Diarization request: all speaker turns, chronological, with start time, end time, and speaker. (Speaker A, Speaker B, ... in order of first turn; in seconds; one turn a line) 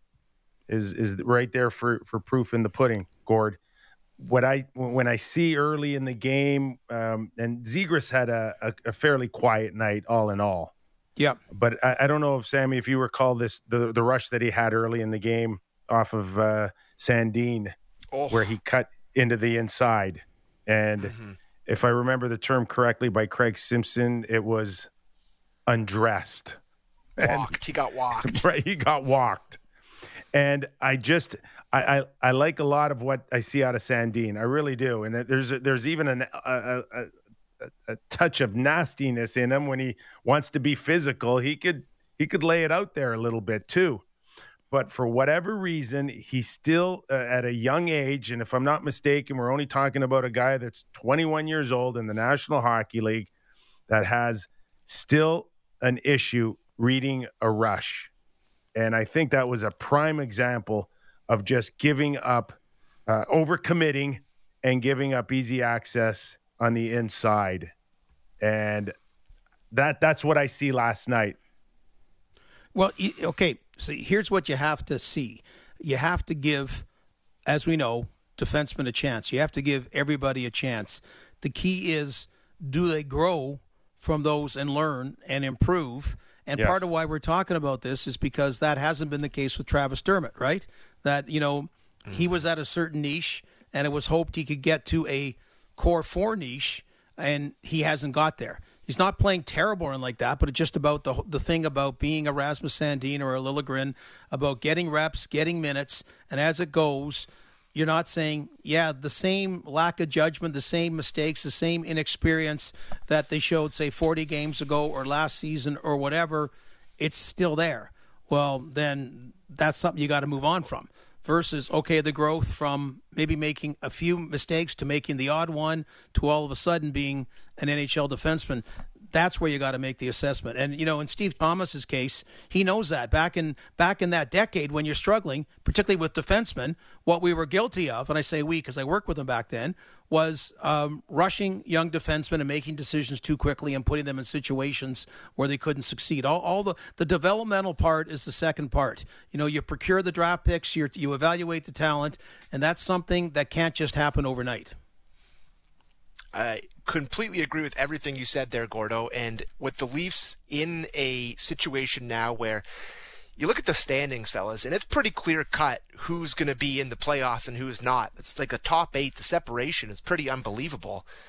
Speaker A: 0.7-3.6
Speaker A: 4.2-10.7
Speaker A: 11.5-17.8
Speaker B: 18.1-18.5
Speaker A: 18.3-21.1
Speaker B: 21.0-21.4
Speaker A: 21.7-24.9
Speaker A: 25.7-26.6
Speaker A: 27.2-27.6
Speaker B: 27.2-28.4
Speaker A: 28.2-29.6
Speaker A: 30.3-37.1
Speaker A: 37.9-44.0
Speaker A: 44.7-53.3
Speaker A: 53.9-58.1
Speaker A: 58.8-62.6
Speaker A: 63.1-67.7
Speaker A: 68.4-68.9
Speaker A: 69.7-71.4
Speaker C: 72.7-76.8
Speaker C: 77.5-154.8
Speaker A: 86.6-86.9
Speaker B: 92.1-92.3
Speaker B: 156.3-162.6
Speaker B: 163.4-171.1